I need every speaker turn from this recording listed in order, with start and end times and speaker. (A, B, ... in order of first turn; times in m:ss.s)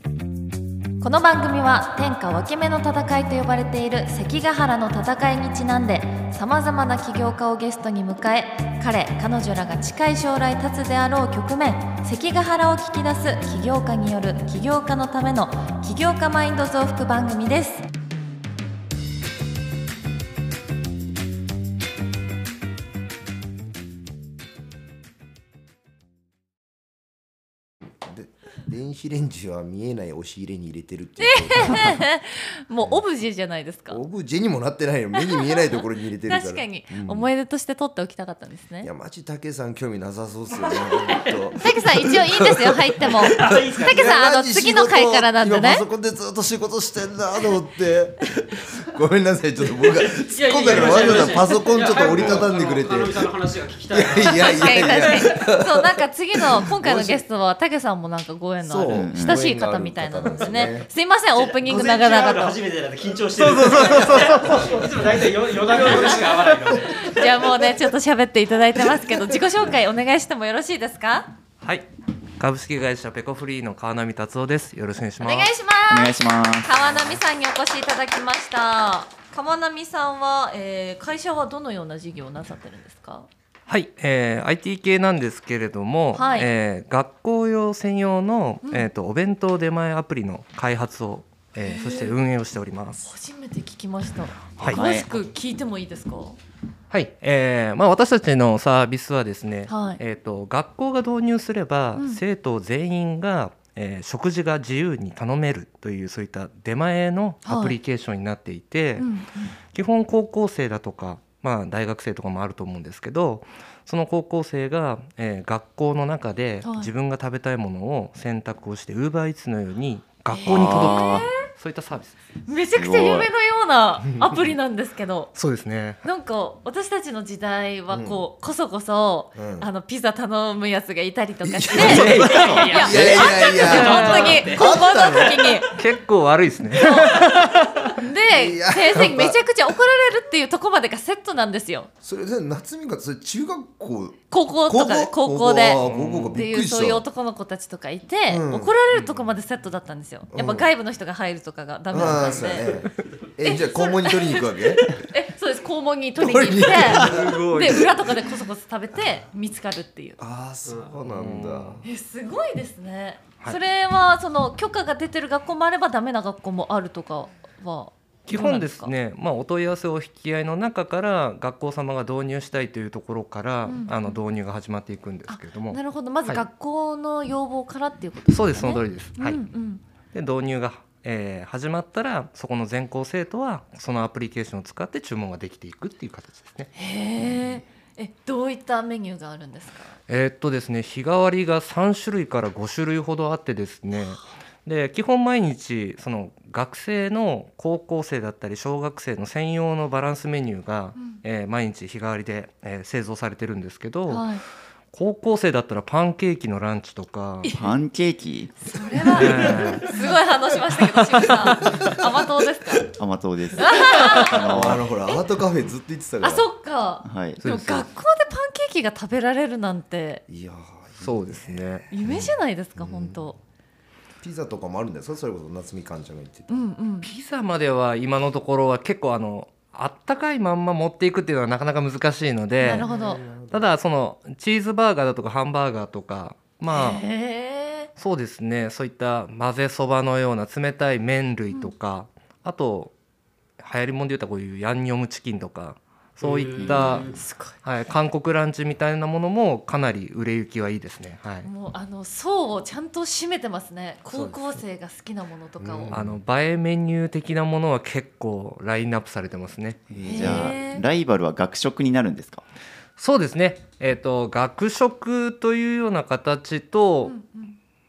0:01.0-0:17.9 A
0:28.0-0:32.1 B
0:31.2-0:34.0 A
0:33.9-0:37.3 B
0:35.2-0:35.6 A
0:36.3-0:38.9 A
0:38.8-0:53.3 B
0:41.6-0:45.9 A
0:43.2-0:44.1 C
0:50.3-0:55.4 C
0:50.7-0:52.2 A
0:53.9-0:57.2 B
0:54.2-1:02.6 A
0:58.6-1:00.9 B
0:58.9-0:59.4 D
1:00.4-1:00.7 C
1:01.3-1:07.3 C
1:03.4-1:06.4 E
1:05.7-1:06.3 A
1:06.9-1:11.3 A
1:11.6-1:11.9 E
1:12.4-1:15.5 E
1:15.2-1:23.3 A
1:15.9-1:17.2 D
1:23.7-1:33.0 E
1:26.1-1:26.5 A
1:31.6-1:32.2 A
1:33.0-1:36.4 A
1:34.6-1:35.2 D
1:34.6-1:34.8 E
1:36.9-1:49.1 E
1:39.7-1:40.0 A
1:42.0-1:42.2 A
1:47.4-1:47.8 A
1:49.0-1:49.6 A
1:49.7-2:02.2 E
1:56.6-1:56.9 A
2:00.3-2:01.5 A
2:00.5-2:01.3 D
2:02.5-2:05.3 A
2:02.8-2:03.3 D
2:05.4-2:06.0 E
2:06.0-2:15.8 A
2:07.9-2:08.2 B
2:09.4-2:09.7 B
2:11.4-2:15.6 B
2:11.8-2:12.6 E
2:11.9-2:14.7 C
2:12.0-2:12.6 D
2:13.6-2:14.4 E
2:15.7-2:17.9 E
2:16.8-2:21.9 A
2:18.2-2:19.4 B
2:22.0-2:27.0 B
2:24.3-2:32.8 A
2:25.8-2:26.4 E
2:28.3-2:28.7 B
2:28.9-2:29.2 E
2:30.3-2:30.7 B
2:31.9-2:34.9 B
2:33.4-2:40.2 A
2:36.2-2:37.9 B
2:36.9-2:37.9 E
2:40.2-2:41.8 B
2:40.7-2:41.0 C
2:41.0-2:41.8 E
2:41.8-2:48.9 A
2:48.3-2:56.4 E
2:53.7-2:54.2 A
2:55.3-2:59.8 A
2:58.3-2:59.4 E
3:00.1-3:06.7 E
3:06.8-3:10.0 A
3:10.1-3:24.3 E
3:13.9-3:14.3 A
3:24.1-3:24.4 A
3:24.9-3:27.5 E
3:27.4-3:27.7 A
3:27.5-3:28.6 D
3:28.6-3:32.9 A
3:29.1-3:29.8 B
3:29.1-3:30.0 E
3:31.1-3:31.8 E
3:31.6-3:32.0 B
3:32.9-3:34.9 D
3:33.6-3:34.7 A
3:34.5-3:36.5 B
3:36.2-3:40.2 A
3:37.0-3:37.8 D
3:37.4-3:37.8 E
3:40.3-3:43.4 B
3:41.0-3:41.9 E
3:41.9-3:43.4 A
3:44.2-3:46.5 B
3:46.5-3:47.1 A
3:47.0-3:52.9 E
3:52.6-3:53.2 A
3:52.7-3:53.7 B
3:53.5-3:57.0 E
3:56.7-3:57.9 A
3:58.0-4:02.9 E
4:03.6-4:11.5 E
4:06.2-4:07.2 C
4:06.6-4:07.1 D
4:07.1-4:07.6 A
4:11.4-4:15.9 A
4:14.1-4:14.6 E
4:15.6-4:16.2 B
4:15.9-4:20.5 E
4:19.9-4:22.4 D
4:20.0-4:20.8 A
4:23.0-4:27.1 E
4:27.0-4:27.6 A